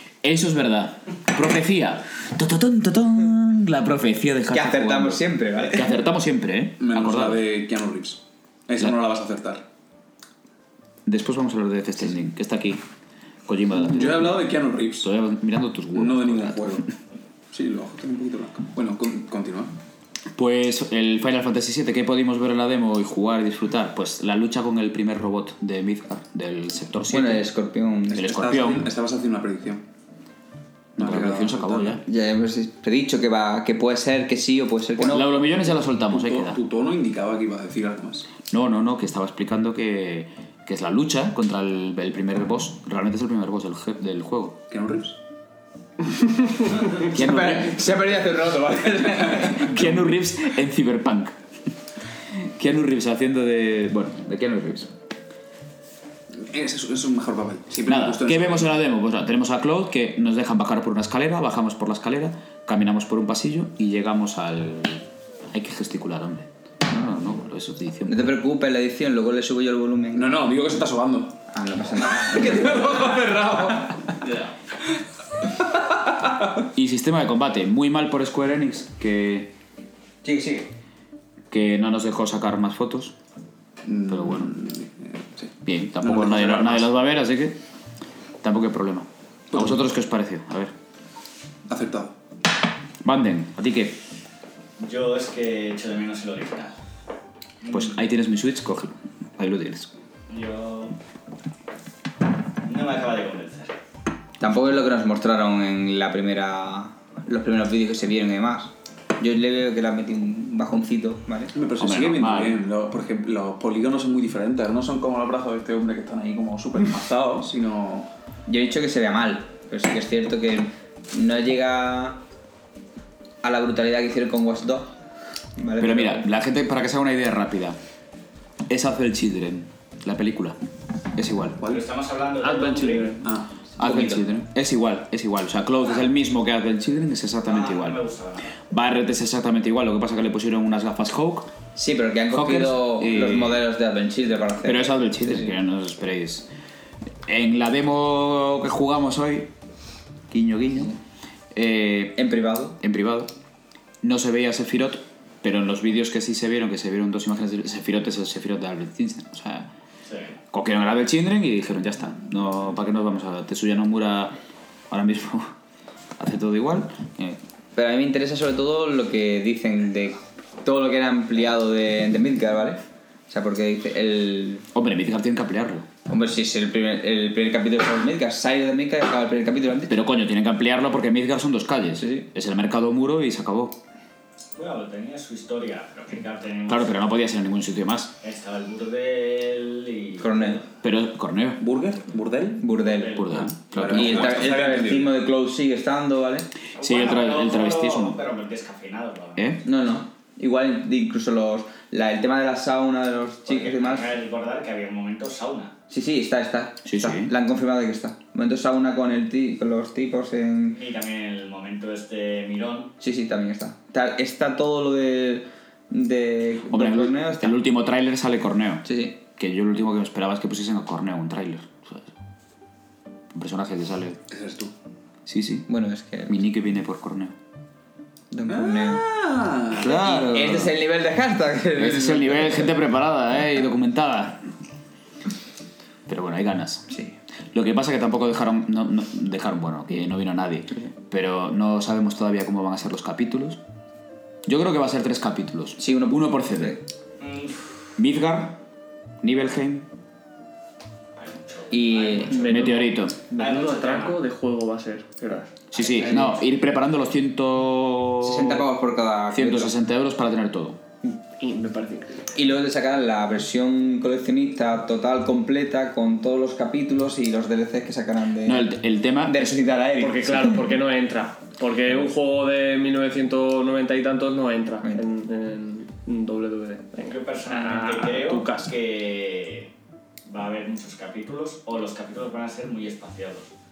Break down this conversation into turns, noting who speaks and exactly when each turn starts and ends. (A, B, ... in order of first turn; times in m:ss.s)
0:00.2-0:07.4 A
0:04.5-0:06.0 B
0:06.8-0:09.6 C
0:11.0-0:12.8 A
0:13.5-0:16.9 A
0:13.7-0:15.1 C
0:15.9-0:16.9 C
0:17.5-0:19.7 C
0:20.4-0:27.5 A
0:27.1-0:28.3 B
0:28.1-0:29.8 C
0:28.1-0:28.9 A
0:31.0-0:32.0 A
0:31.0-0:32.0 C
0:32.0-0:35.4 B
0:35.1-0:36.6 A
0:35.8-0:38.3 C
0:38.5-0:44.6 A
0:44.7-0:45.2 C
0:47.0-0:47.9 A
0:47.0-0:49.9 B
0:49.3-0:51.4 A
0:52.4-0:54.9 A
0:56.3-0:58.8 C
0:57.8-1:08.3 A
1:08.0-1:10.3 B
1:10.1-1:11.4 C
1:11.5-1:13.2 B
1:12.1-1:14.2 C
1:16.7-1:19.5 A
1:20.2-1:20.7 B
1:21.5-1:23.1 A
1:23.8-1:26.9 C
1:24.1-1:24.5 A
1:25.6-1:27.6 A
1:28.4-1:30.7 A
1:29.5-1:29.9 C
1:31.7-1:32.1 C
1:33.0-1:34.0 A
1:34.8-1:36.8 D
1:37.6-1:38.0 D
1:37.7-1:39.9 A
1:40.3-1:41.0 D
1:42.6-1:43.7 D
1:44.4-1:51.5 B
1:51.5-1:58.1 C
1:51.8-1:52.6 A
1:58.5-2:02.2 B
2:03.4-2:04.9 B
2:05.6-2:06.3 B
2:05.8-2:07.8 A
2:08.7-2:10.6 A
2:11.2-2:11.6 A
2:11.6-2:11.8 C
2:11.6-2:13.2 D
2:12.4-2:13.2 E
2:13.2-2:14.1 C
2:13.8-2:18.0 A
2:13.8-2:14.2 B
2:17.4-2:18.6 D
2:18.6-2:21.5 A
2:21.8-2:25.5 B
2:22.3-2:23.6 A
2:24.6-2:26.5 A
2:27.2-2:29.5 A
2:30.3-2:30.9 A
2:31.5-2:32.2 A
2:32.2-2:32.8 B
2:32.8-2:33.3 A
2:34.0-2:39.7 A
2:40.1-2:40.3 D
2:40.5-2:44.3 A
2:44.9-2:45.5 A
2:46.2-2:47.4 A
2:47.8-2:54.7 B
2:54.7-2:55.8 A
2:56.1-3:00.0 B
2:59.9-3:03.8 A
3:02.0-3:02.3 B
3:04.6-3:07.0 D
3:06.7-3:08.1 A
3:08.2-3:10.7 D
3:10.2-3:10.6 B
3:10.8-3:11.6 A
3:11.6-3:12.6 C
3:12.6-3:13.2 B
3:12.8-3:14.0 D
3:13.2-3:14.5 A
3:13.4-3:15.1 C
3:13.9-3:16.5 B
3:16.8-3:19.6 D
3:16.8-3:18.2 A
3:19.4-3:19.6 A
3:19.6-3:24.1 B
3:23.5-3:25.7 D
3:25.9-3:30.8 B
3:26.8-3:27.3 A
3:30.7-3:32.9 D
3:33.0-3:37.6 B
3:36.7-3:42.1 A
3:38.8-3:39.2 B
3:43.3-3:44.2 A
3:44.3-3:44.7 C
3:45.2-3:45.7 A
3:45.7-3:46.4 B
3:46.3-3:47.3 A
3:48.3-3:49.0 B
3:48.5-3:50.0 C
3:49.7-3:50.8 A
3:49.8-3:52.7 B
3:51.8-3:54.5 A
3:56.1-3:56.9 A
3:57.5-4:03.6 A
4:04.4-4:06.8 A
4:05.8-4:06.8 B
4:07.2-4:07.8 D
4:08.0-4:08.6 A
4:09.2-4:09.9 A
4:11.2-4:14.2 D
4:11.7-4:12.3 B
4:12.3-4:15.5 E
4:12.4-4:13.2 A
4:15.7-4:18.6 A
4:15.7-4:16.4 D
4:18.2-4:19.7 B
4:19.3-4:20.8 A
4:21.4-4:22.2 E
4:22.3-4:28.7 B
4:28.4-4:29.6 A
4:29.2-4:30.6 B
4:30.0-4:38.7 E
4:37.0-4:39.7 D
4:40.2-4:43.5 D